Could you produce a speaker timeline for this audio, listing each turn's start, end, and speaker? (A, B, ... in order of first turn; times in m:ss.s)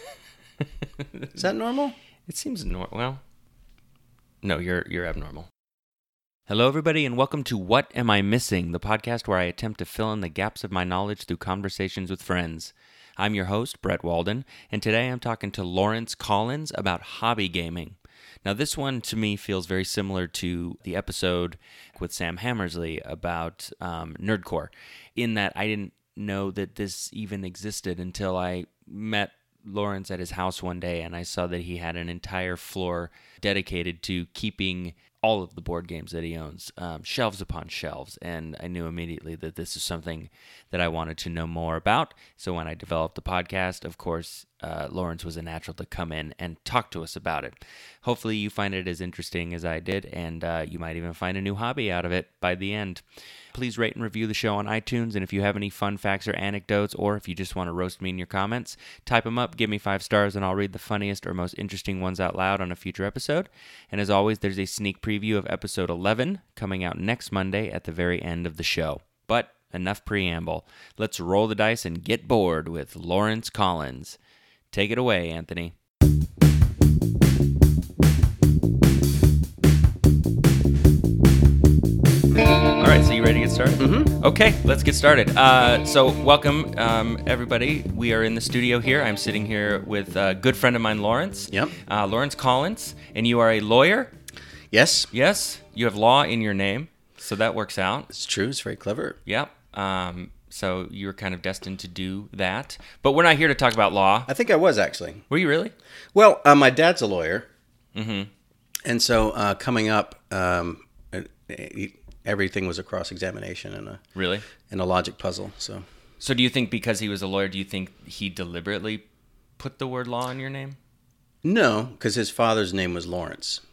0:01.0-0:01.5 A
0:01.3-0:02.0 B
0:02.3-0:03.2 A
0:04.4-0:05.5 A
0:06.5-1:14.2 A
1:14.7-1:15.7 A
1:22.5-1:34.1 A
1:23.8-1:24.1 B
1:34.7-1:35.1 B
1:35.1-1:38.1 A
1:38.1-1:39.2 B
1:39.2-1:44.3 A
1:44.3-1:45.2 B
1:45.3-1:45.7 A
1:46.1-1:47.5 B
1:47.9-1:48.3 A
1:48.8-1:54.0 B
1:54.1-1:54.5 A
1:54.7-1:55.8 B
1:56.2-1:59.0 A
1:59.6-2:00.8 A
2:01.4-2:03.6 B